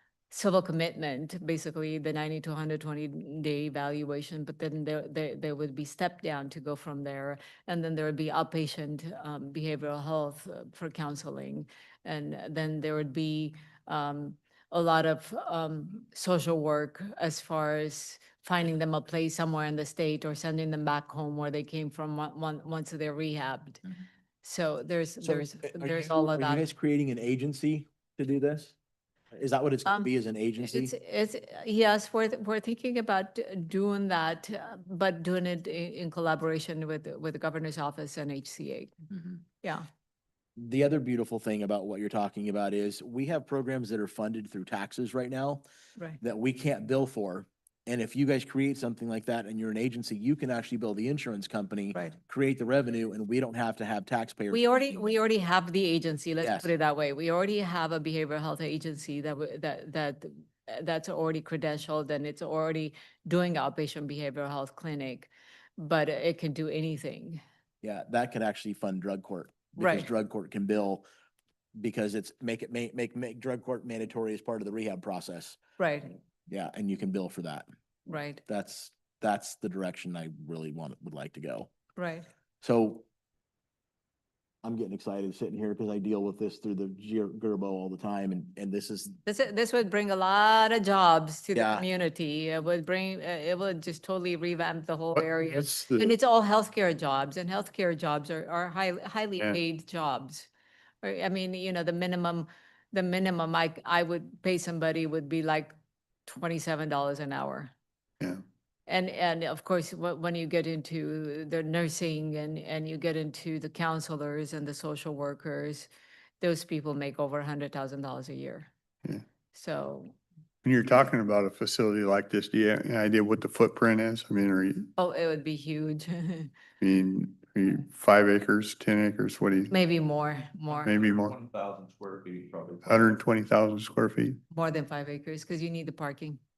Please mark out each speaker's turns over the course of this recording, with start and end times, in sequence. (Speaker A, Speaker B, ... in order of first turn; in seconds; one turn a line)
Speaker A: 0.3-23.8
Speaker A: 24.4-26.6
Speaker B: 25.2-28.7
Speaker B: 29.3-30.9
Speaker A: 30.6-38.9
Speaker B: 40.6-45.6
Speaker B: 46.2-54.6
Speaker A: 54.5-67.4
Speaker B: 56.4-56.7
Speaker B: 67.8-71.0
Speaker A: 69.8-70.1
Speaker B: 71.8-75.6
Speaker A: 75.8-76.1
Speaker B: 76.5-77.7
Speaker A: 78.1-78.4
Speaker B: 78.5-81.7
Speaker A: 82.0-82.2
Speaker B: 82.6-83.0
Speaker B: 84.6-89.2
Speaker A: 89.2-100.5
Speaker B: 91.5-91.8
Speaker C: 95.4-96.1
Speaker A: 101.0-105.7
Speaker A: 106.3-107.7
Speaker A: 108.9-115.9
Speaker A: 116.4-118.7
Speaker A: 119.5-120.1
Speaker C: 120.6-124.9
Speaker A: 125.0-126.5
Speaker C: 126.8-129.7
Speaker A: 129.7-131.0
Speaker C: 130.8-131.3
Speaker D: 131.1-133.1
Speaker C: 132.8-134.4
Speaker A: 134.5-136.4